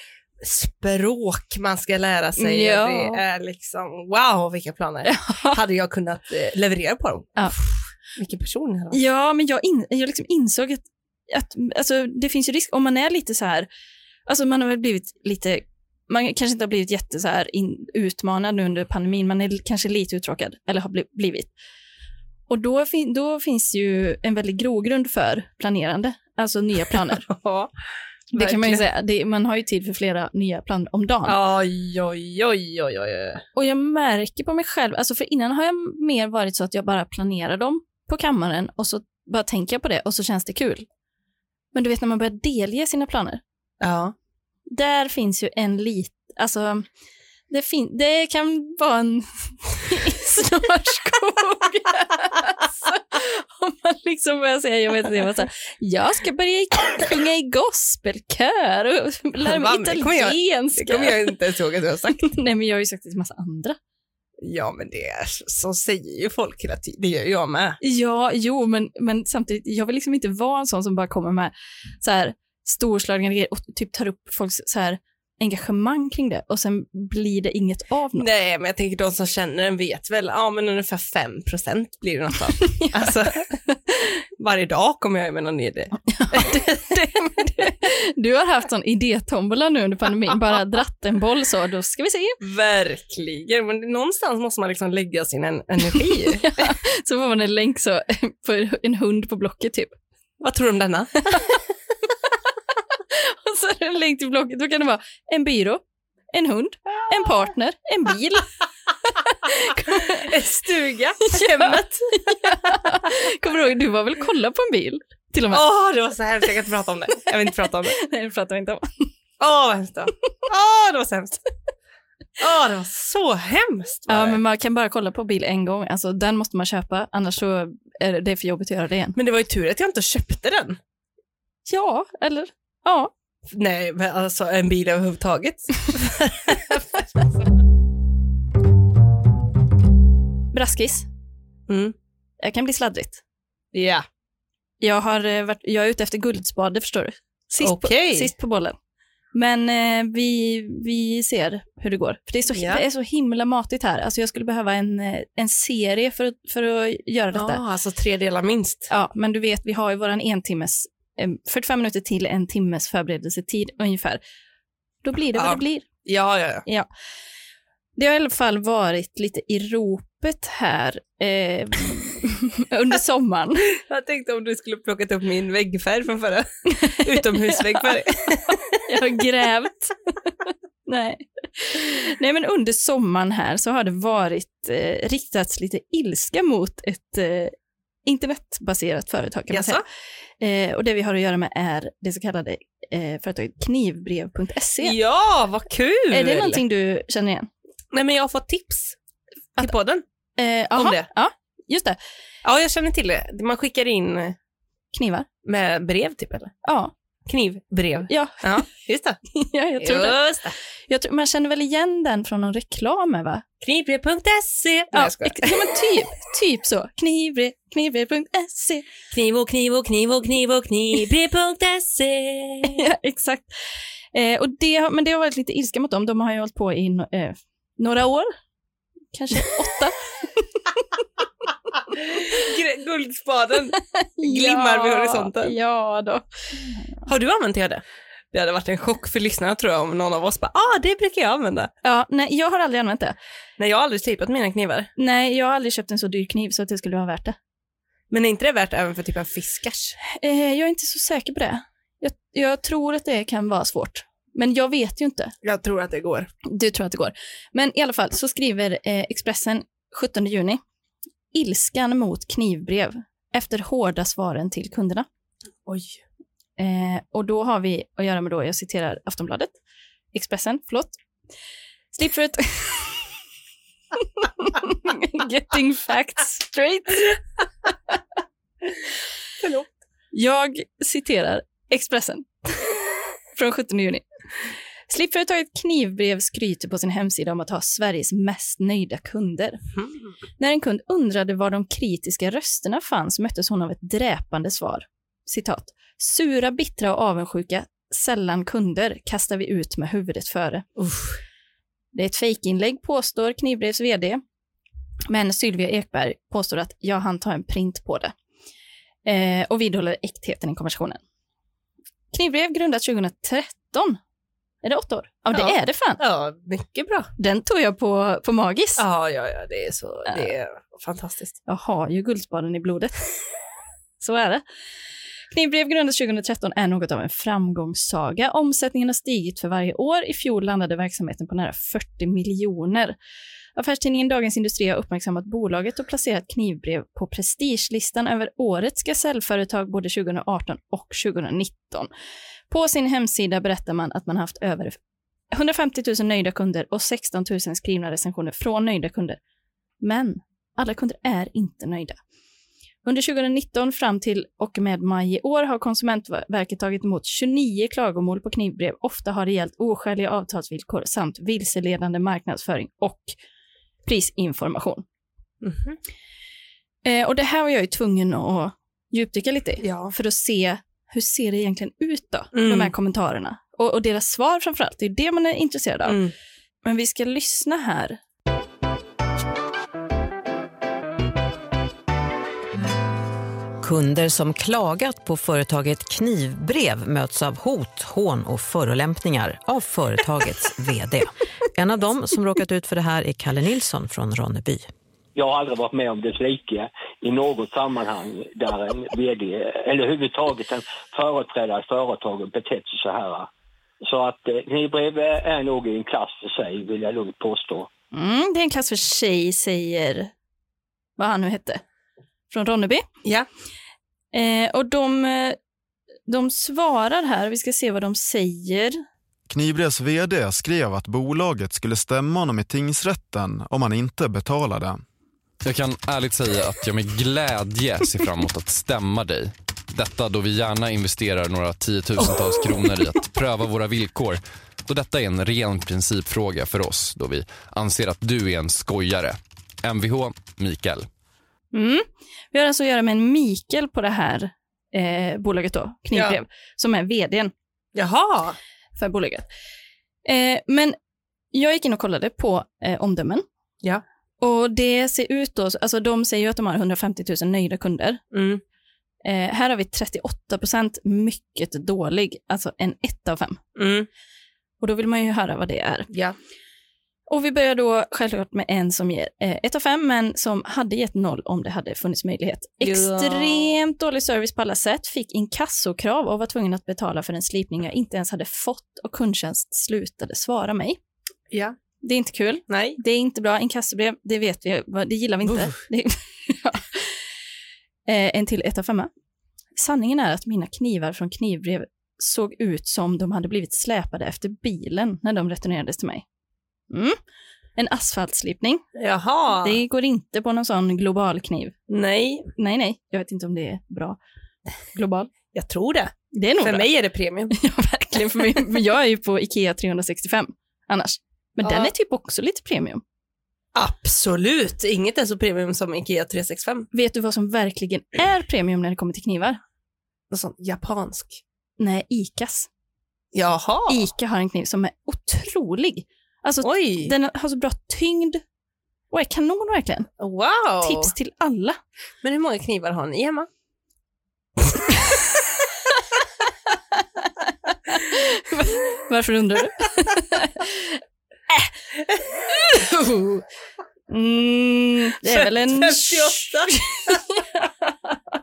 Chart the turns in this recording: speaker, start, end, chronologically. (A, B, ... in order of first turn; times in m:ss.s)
0:00.4-0:09.0 A
0:02.4-0:03.2 B
0:05.0-0:05.6 B
0:08.9-0:13.7 B
0:14.2-0:21.5 B
0:22.5-0:27.3 B
0:27.2-0:27.7 A
0:28.3-0:28.8 A
0:28.3-0:31.4 B
0:31.3-0:33.4 A
0:33.5-0:40.9 B
0:41.7-0:43.4 B
0:43.8-0:44.1 A
0:44.7-0:46.8 B
0:47.5-1:01.3 B
0:59.4-1:02.3 A
1:02.2-1:03.8 B
1:04.4-1:07.8 A
1:07.8-1:18.2 B
1:18.2-1:23.5 A
1:22.6-1:23.7 B
1:24.4-1:26.9 A
1:26.1-1:32.4 B
1:32.4-1:36.7 A
1:36.3-1:40.0 B
1:40.4-1:41.3 A
1:41.3-1:41.5 B
1:43.1-1:48.5 B
1:49.2-1:50.3 B
1:50.1-1:53.1 A
1:51.2-1:55.6 B
1:55.5-1:58.0 A
1:57.9-1:59.1 B
1:59.4-2:01.4 A
2:02.4-2:04.4 A
2:04.1-2:09.2 B
2:09.2-2:10.8 A
2:11.6-2:13.1 B
2:13.5-2:17.1 A
2:20.5-2:21.1 B
2:21.7-2:21.9 A
2:22.4-2:23.2 B
2:23.7-2:24.0 A
2:24.8-2:28.8 B
2:27.6-2:28.3 A
2:29.3-2:37.6 B
2:32.5-2:32.8 A
2:37.3-2:38.9 A
2:38.9-2:44.2 B
2:45.0-2:45.8 B
2:45.3-2:46.6 A
2:48.0-2:53.7 B
2:53.8-2:58.8 A
2:56.7-2:57.9 B
2:58.5-2:59.9 B
3:00.9-3:07.5 B
3:08.0-3:09.8 B
3:09.5-3:09.8 A
3:10.4-3:15.0 B
3:14.8-3:16.6 A
3:16.1-3:17.5 B
3:17.9-3:19.0 A
3:19.6-3:20.0 A
3:20.4-3:22.0 B
3:20.7-3:21.1 A
3:22.4-3:24.4 A
3:24.9-3:25.3 B
3:25.4-3:26.6 A
3:26.6-3:26.9 B
3:27.3-3:29.2 A
3:28.1-3:28.6 B
3:29.3-3:30.2 B
3:29.8-3:30.5 A
3:30.9-3:33.4 B
3:33.6-3:35.6 A
3:34.9-3:38.8 B
3:39.1-3:42.8 A
3:42.6-3:43.6 B
3:44.1-3:48.3 B
3:49.1-3:49.9 B
3:52.0-3:55.5 A
3:53.8-3:57.0 B
3:57.1-4:01.7 A
4:01.8-4:03.2 B
4:03.6-4:04.9 A
4:05.0-4:07.4 B
4:08.1-4:10.0 A
4:10.0-4:15.3 B
4:15.4-4:16.3 A
4:16.4-4:20.6 B
4:21.3-4:25.1 B
4:25.6-4:26.0 A
4:26.6-4:29.5 B
4:30.1-4:31.0 B
4:31.9-4:33.1 B
4:34.2-4:37.2 B
4:39.4-4:39.7 A
4:40.1-4:42.3 B
4:43.3-4:44.0 B
4:44.9-4:49.6 B
4:50.4-5:00.7 B
5:00.8-5:01.1 A
5:01.9-5:04.2 B
5:05.1-5:08.1 B
5:09.0-5:11.0 B
5:12.1-5:14.0 B
5:14.6-5:16.0 B
5:15.3-5:17.1 A
5:17.2-5:18.8 B
5:18.8-5:21.4 A
5:21.5-5:23.2 B
5:24.0-5:24.4 B
5:25.3-5:32.9 B
5:33.6-5:41.9 B
5:42.5-5:44.8 B
5:45.3-5:49.2 B
5:49.8-5:52.0 B
5:52.8-6:03.2 B
6:03.8-6:04.8 B
6:05.4-6:05.8 A
6:06.8-6:16.0 B
6:09.6-6:09.9 A
6:12.3-6:12.7 A
6:15.9-6:16.1 A
6:16.6-6:18.0 B
6:23.6-6:34.7 C
6:35.2-6:43.3 D
6:43.8-6:47.7 D
6:47.9-6:50.1 B
6:51.0-6:51.6 B
6:52.3-6:52.8 B
6:54.1-6:55.4 B
6:56.1-6:58.8 B
6:59.3-7:04.8 E
7:05.4-7:20.9 F
7:21.5-7:27.3 B
7:25.9-7:26.2 A
7:27.7-7:28.4 A
7:28.8-7:29.3 B
7:30.0-7:30.8 B
7:31.3-7:33.2 B
7:34.2-7:38.0 B
7:38.1-7:38.4 A
7:39.0-7:43.4 B
7:43.6-7:43.9 A
7:44.6-7:45.9 B
7:47.1-8:00.8 B
7:52.6-7:53.5 A
8:01.3-8:01.6 A
8:01.8-8:06.9 B
8:02.5-8:02.8 A
8:07.9-8:08.9 B
8:09.6-8:16.0 B
8:16.7-8:17.0 B
8:17.6-8:18.6 B
8:18.8-8:19.6 A
8:19.4-8:21.5 B
8:21.7-8:22.3 A
8:22.4-8:24.0 B
8:24.7-8:25.1 B
8:25.3-8:27.3 A
8:26.1-8:26.7 B
8:27.3-8:32.8 B
8:31.4-8:31.7 A
8:33.5-8:36.7 A
8:36.7-8:39.4 B
8:40.1-8:41.2 A
8:41.6-8:42.5 B
8:43.1-8:43.8 A
8:43.7-8:48.2 B
8:46.4-8:46.9 A
8:48.9-8:49.9 B
8:50.0-8:50.9 A
8:50.6-8:51.6 B
8:52.0-8:53.3 A
8:57.7-9:01.5 B
9:02.3-9:03.2 B
9:03.9-9:07.7 B
9:05.0-9:07.0 A